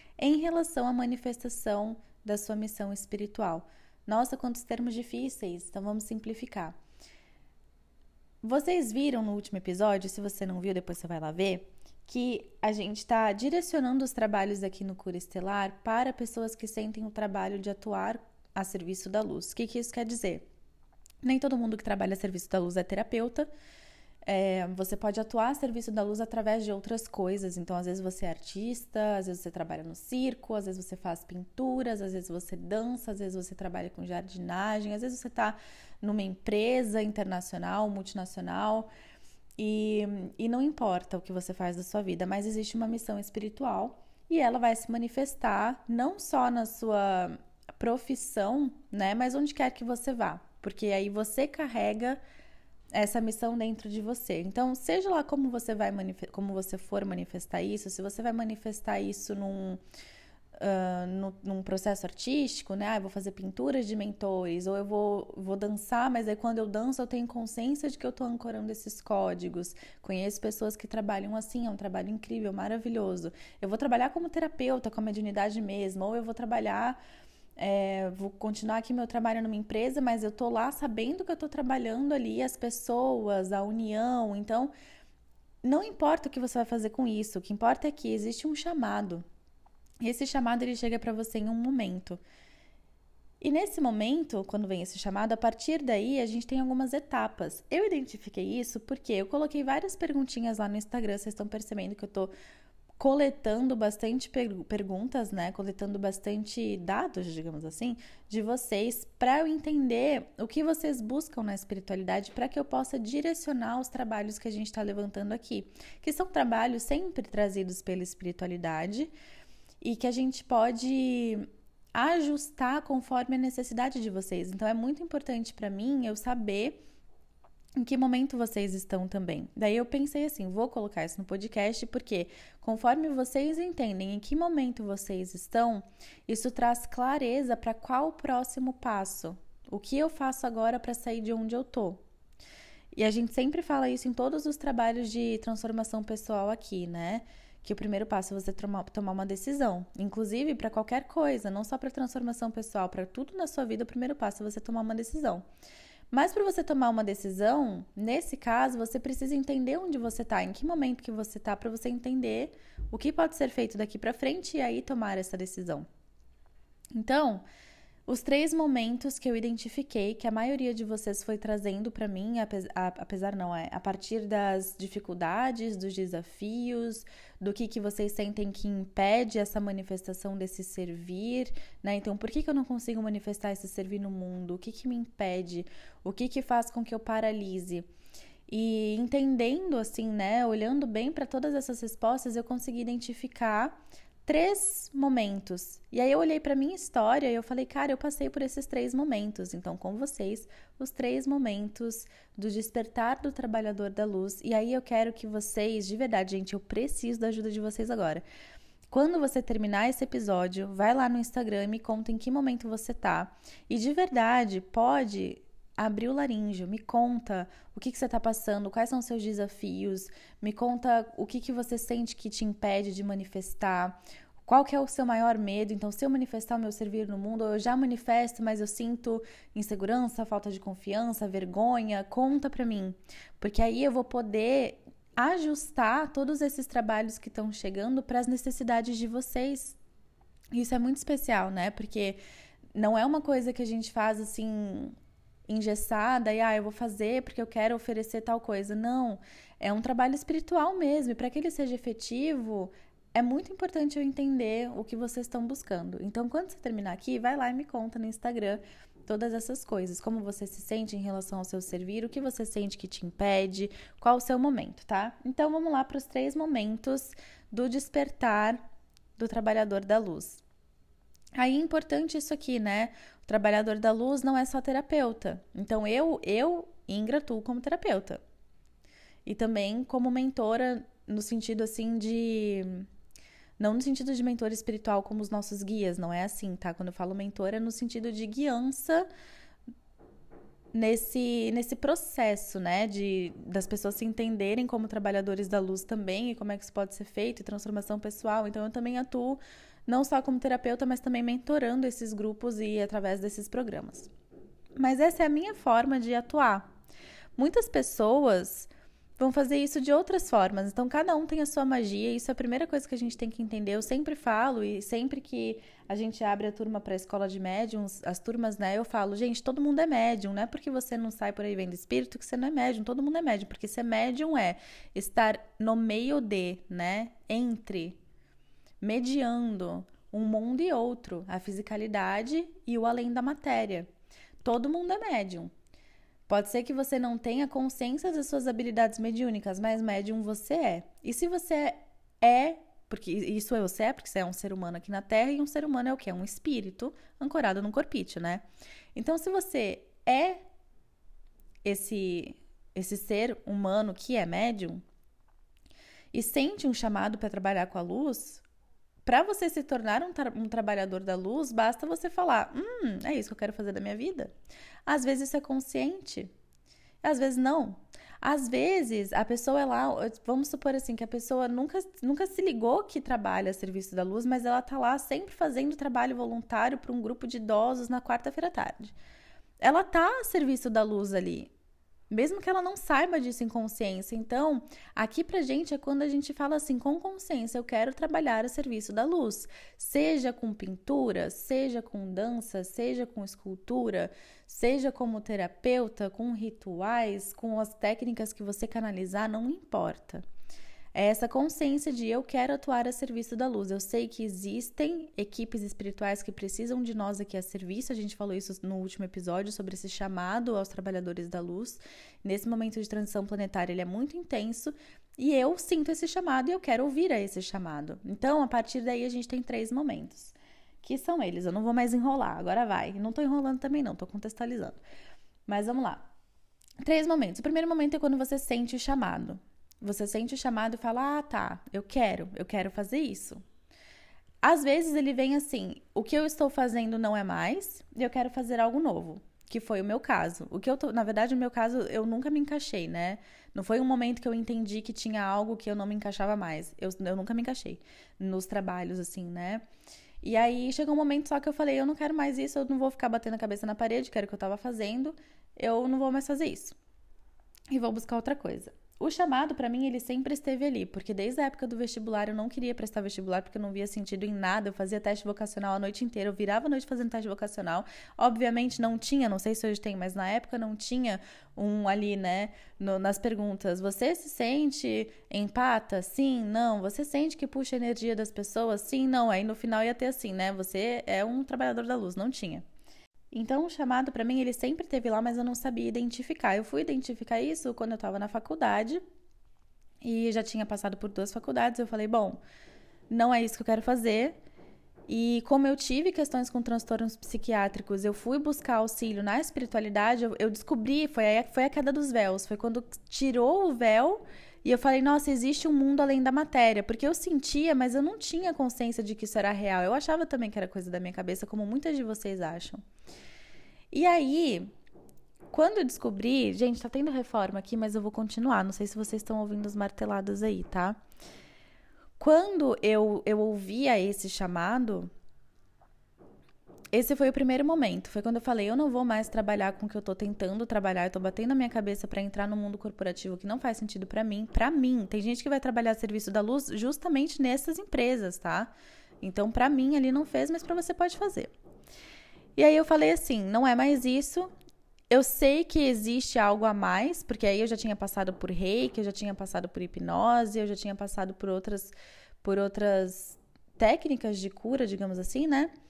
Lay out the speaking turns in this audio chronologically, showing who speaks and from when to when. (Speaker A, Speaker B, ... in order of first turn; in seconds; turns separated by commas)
Speaker A: 0.2-6.8, Speaker A: 8.4-20.4, Speaker A: 21.2-23.5, Speaker A: 24.2-38.9, Speaker A: 39.6-52.2, Speaker A: 52.9-59.8, Speaker A: 60.6-77.0, Speaker A: 77.6-84.7, Speaker A: 85.6-89.2, Speaker A: 90.0-92.2, Speaker A: 93.4-102.3, Speaker A: 103.0-119.1, Speaker A: 119.8-126.8, Speaker A: 127.8-142.0, Speaker A: 142.9-155.4, Speaker A: 156.1-165.8, Speaker A: 166.9-167.4, Speaker A: 168.1-187.9, Speaker A: 188.5-208.2, Speaker A: 208.9-239.8, Speaker A: 240.5-242.2, Speaker A: 242.7-244.9, Speaker A: 245.5-268.6, Speaker A: 269.2-270.4, Speaker A: 271.3-278.2, Speaker A: 279.2-282.9, Speaker A: 283.6-289.1, Speaker A: 290.7-304.1, Speaker A: 304.8-306.7, Speaker A: 307.4-328.0, Speaker A: 328.8-333.9, Speaker A: 334.4-335.5, Speaker A: 336.3-348.4, Speaker A: 348.9-350.4, Speaker A: 351.6-354.8, Speaker A: 356.1-358.4, Speaker A: 359.0-364.3, Speaker A: 364.9-366.3, Speaker A: 367.0-378.9, Speaker A: 379.6-381.5, Speaker A: 382.1-400.2, Speaker A: 400.9-424.8, Speaker A: 425.5-426.1, Speaker A: 426.8-433.4, Speaker A: 434.4-449.6, Speaker A: 450.2-456.8, Speaker A: 457.7-482.6, Speaker A: 483.3-489.0, Speaker A: 490.0-492.4, Speaker A: 493.1-494.4, Speaker A: 495.1-512.8, Speaker A: 513.9-514.7, Speaker A: 515.5-521.0, Speaker A: 522.2-525.1, Speaker A: 526.9-541.5, Speaker A: 542.6-544.5, Speaker A: 545.1-555.7